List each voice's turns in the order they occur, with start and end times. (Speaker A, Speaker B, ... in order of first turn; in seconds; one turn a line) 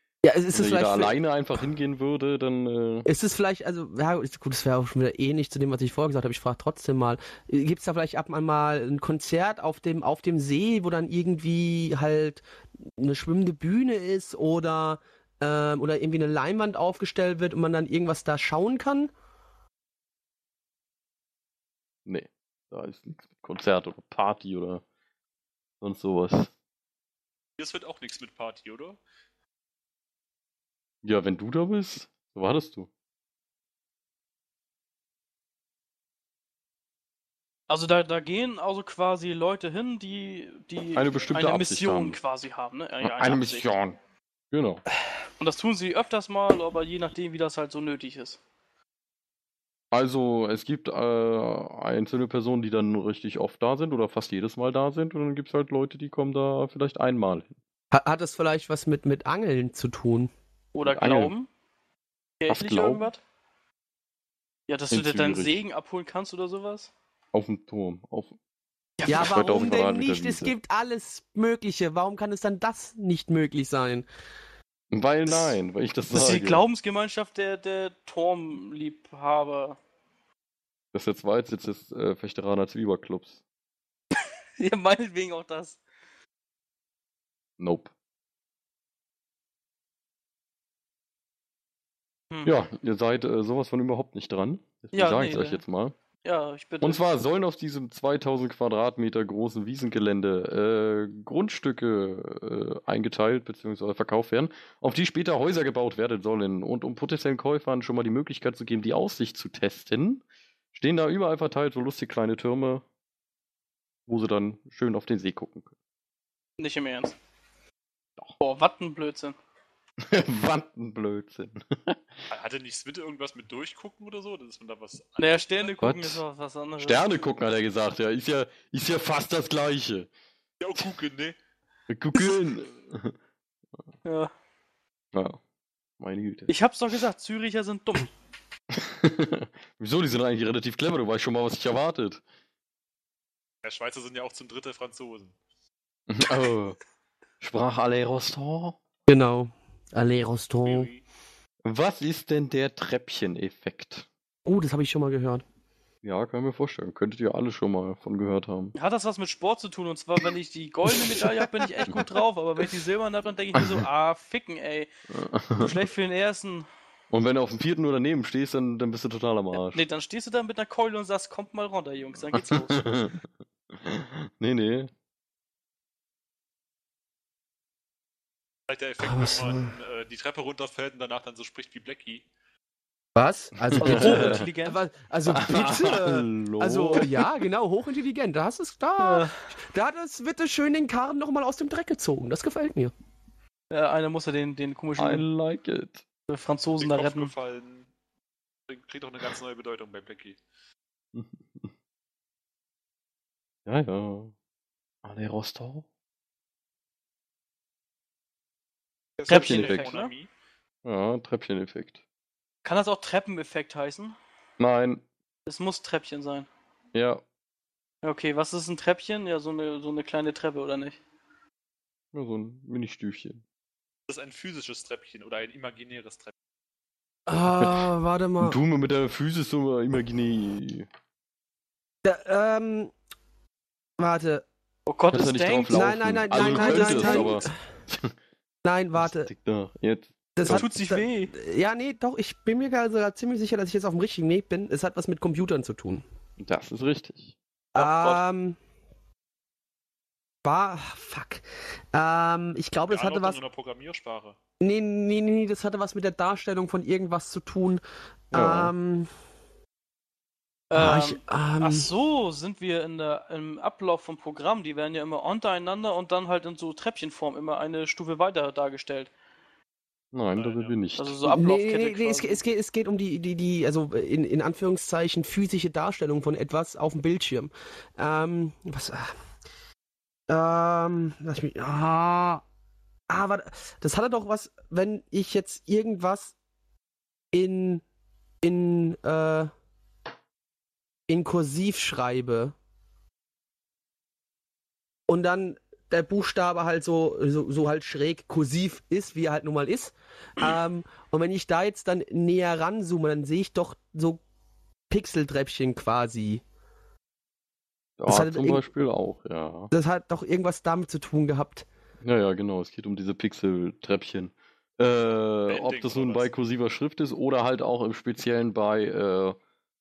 Speaker A: 0.2-1.2
Speaker B: 0.5-3.1
Speaker A: 3.1-12.4
Speaker A: 13.0-19.1
Speaker B: 22.1-24.8
Speaker B: 25.8-26.5
Speaker C: 27.6-29.0
Speaker B: 31.0-32.9
Speaker D: 37.7-43.7
Speaker B: 40.9-42.2
Speaker B: 43.0-44.0
Speaker B: 44.5-44.8
Speaker D: 45.4-48.4
Speaker B: 49.9-57.5
Speaker A: 57.9-60.3
Speaker D: 60.7-61.5
Speaker B: 60.9-61.3
Speaker D: 62.4-63.2
Speaker B: 62.5-63.1
Speaker D: 64.7-66.9
Speaker B: 64.9-65.6
Speaker B: 67.3-68.4
Speaker D: 69.0-69.3
Speaker B: 69.1-70.5
Speaker A: 69.1-74.1
Speaker B: 74.9-76.6
Speaker D: 75.3-75.5
Speaker D: 76.1-79.8
Speaker B: 80.9-83.4
Speaker D: 84.6-85.8
Speaker B: 87.6-87.9
Speaker B: 92.4-95.9
Speaker D: 94.9-95.6
Speaker D: 96.2-97.0
Speaker B: 96.8-112.8
Speaker B: 114.1-115.7
Speaker D: 116.6-117.2
Speaker D: 118.4-119.4
Speaker B: 120.0-122.3
Speaker C: 122.3-125.8
Speaker D: 125.2-127.0
Speaker B: 125.8-126.2
Speaker B: 126.8-130.1
Speaker C: 130.6-131.3
Speaker B: 131.9-133.2
Speaker D: 134.1-134.3
Speaker B: 135.1-135.4
Speaker B: 136.0-136.5
Speaker D: 136.5-138.1
Speaker B: 138.7-142.2
Speaker C: 143.6-145.3
Speaker B: 146.1-146.8
Speaker B: 147.4-148.8
Speaker A: 149.1-150.9
Speaker C: 150.6-151.0
Speaker B: 151.6-154.1
Speaker A: 154.4-155.4
Speaker B: 156.0-158.7
Speaker D: 158.7-164.9
Speaker B: 163.6-163.8
Speaker B: 165.1-165.7
Speaker D: 165.6-166.7
Speaker B: 167.1-169.8
Speaker D: 169.6-173.1
Speaker B: 172.3-174.9
Speaker C: 178.7-182.2
Speaker A: 179.0-179.7
Speaker A: 183.1-192.9
Speaker B: 183.6-184.4
Speaker D: 183.8-184.8
Speaker B: 185.2-187.3
Speaker D: 189.0-189.3
Speaker D: 193.7-195.2
Speaker B: 195.0-196.0
Speaker D: 196.3-197.3
Speaker C: 196.8-197.9
Speaker C: 198.7-200.4
Speaker B: 201.1-201.7
Speaker B: 203.7-204.3
Speaker B: 205.0-205.9
Speaker C: 209.2-210.3
Speaker D: 209.3-210.1
Speaker B: 209.3-209.9
Speaker B: 210.8-212.0
Speaker D: 212.6-214.1
Speaker B: 214.6-215.0
Speaker D: 215.4-216.5
Speaker B: 216.9-217.2
Speaker D: 218.0-221.0
Speaker B: 222.1-223.4
Speaker C: 224.1-226.3
Speaker A: 227.3-228.6
Speaker B: 227.5-227.9
Speaker B: 228.4-230.9
Speaker A: 232.0-232.9
Speaker A: 234.0-234.4
Speaker D: 234.9-237.5
Speaker B: 235.1-238.1
Speaker A: 235.7-237.5
Speaker A: 238.6-239.3
Speaker B: 238.9-240.6
Speaker A: 240.4-246.0
Speaker D: 240.4-241.3
Speaker B: 246.4-247.3
Speaker A: 247.7-248.6
Speaker D: 247.8-248.2
Speaker A: 250.4-253.4
Speaker C: 252.9-254.4
Speaker A: 254.6-259.1
Speaker B: 258.3-258.7
Speaker D: 260.7-269.1
Speaker A: 260.7-261.9
Speaker B: 270.1-271.2
Speaker C: 270.4-270.7
Speaker D: 271.0-272.4
Speaker A: 271.2-279.1
Speaker A: 280.3-282.4
Speaker A: 283.1-286.3
Speaker A: 287.3-287.8
Speaker A: 288.4-289.5
Speaker A: 291.1-292.6
Speaker A: 295.1-304.2
Speaker A: 304.9-306.4
Speaker B: 308.0-309.7
Speaker A: 308.1-308.6
Speaker A: 309.7-311.6
Speaker B: 312.0-319.4
Speaker C: 315.5-316.3